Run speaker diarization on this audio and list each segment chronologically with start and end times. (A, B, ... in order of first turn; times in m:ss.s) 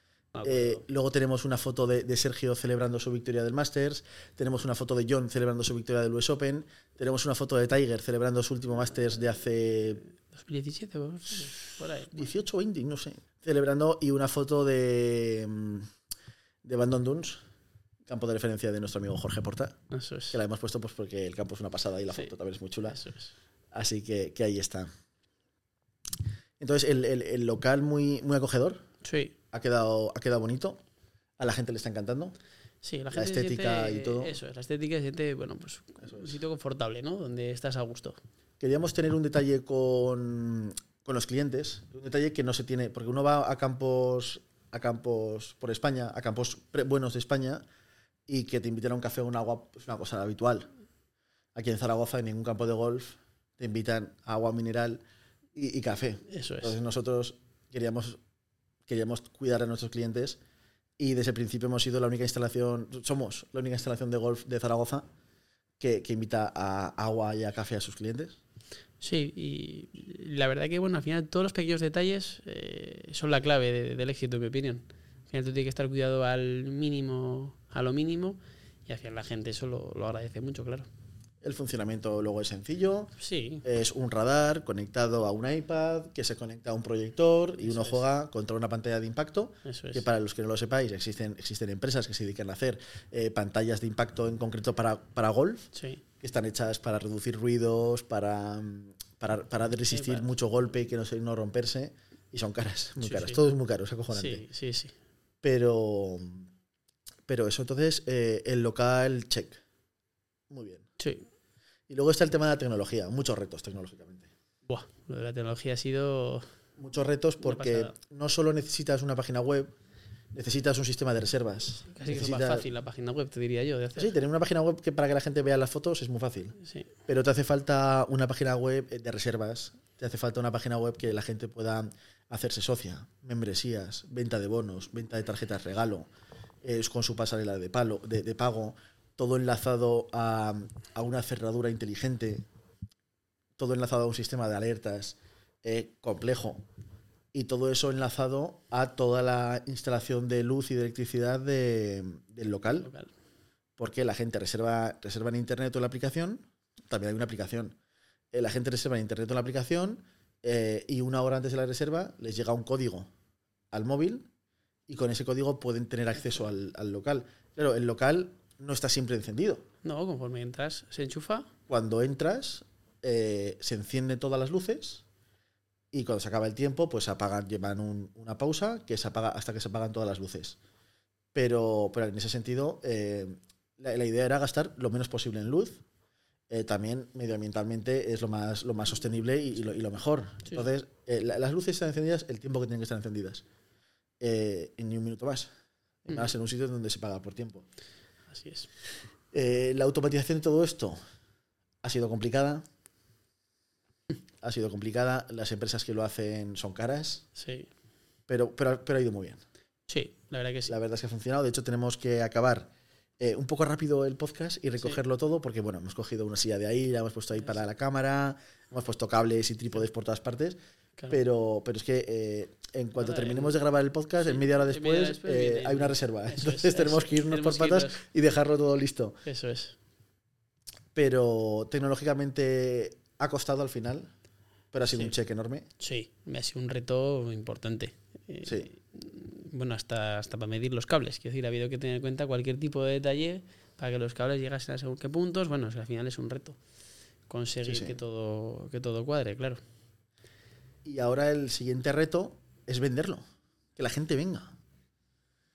0:00.3-0:00.8 A
0:00.4-0:10.0 B
0:10.3-0:12.3 A
0:12.0-0:15.9 B
0:16.6-0:17.4 B
0:18.1-0:19.8 B
0:19.9-0:20.4 A
0:20.3-0:23.0 B
0:22.9-0:23.3 A
0:23.7-0:24.9 B
0:26.6-0:28.8 B
0:29.0-0:29.4 A
0:29.5-0:30.8 B
0:31.4-0:32.3 B
0:32.8-0:38.2 A
0:33.1-0:34.3 B
0:36.0-0:36.3 B
0:38.6-0:47.6 B
0:48.3-0:50.7 B
0:51.5-0:55.0 B
0:55.5-0:58.2 B
0:56.3-0:56.8 A
0:58.9-1:00.4 B
1:01.0-1:05.0 B
1:05.8-1:08.4 B
1:09.0-1:20.9 A
1:21.4-1:35.7 B
1:23.2-1:23.6 A
1:27.6-1:28.0 A
1:29.6-1:30.0 A
1:35.7-1:36.0 A
1:36.2-1:44.4 B
1:39.9-1:40.4 A
1:43.0-1:43.4 A
1:44.1-1:44.9 A
1:45.4-1:46.5 B
1:47.3-1:49.6 B
1:50.5-1:50.8 B
1:51.0-1:51.2 A
1:51.9-1:54.3 B
1:54.6-1:56.4 A
1:56.8-1:59.7 B
1:57.4-1:57.9 A
2:00.3-2:02.7 B
2:01.9-2:04.1 A
2:04.0-2:06.6 B
2:07.1-2:16.1 B
2:16.6-2:22.4 B
2:23.6-2:26.6 B
2:27.3-2:32.9 B
2:32.8-2:33.1 A
2:33.8-2:37.8 B
2:38.3-2:43.1 B
2:43.7-2:44.3 B
2:44.9-2:49.6 B
2:49.8-2:51.5 A
2:51.7-2:55.0 B
2:55.9-3:00.6 B
3:01.3-3:05.8 B
3:06.5-3:13.4 B
3:14.2-3:15.5 B
3:16.0-3:17.6 B
3:18.3-3:18.7 A
3:19.3-3:21.0 B
3:21.8-3:22.6 B
3:24.4-3:27.2 B
3:27.4-3:27.7 A
3:28.3-3:29.4 B
3:29.9-3:30.7 A
3:30.7-3:40.6 B
3:41.1-3:49.2 B
3:43.0-3:43.6 A
3:44.2-3:48.0 A
3:49.2-3:49.8 A
3:50.9-3:54.1 B
3:54.7-3:55.7 B
3:55.8-4:06.6 A
3:58.4-3:58.7 B
4:07.3-4:09.6 A
4:07.6-4:08.0 B
4:10.8-4:13.2 B
4:13.8-4:14.6 B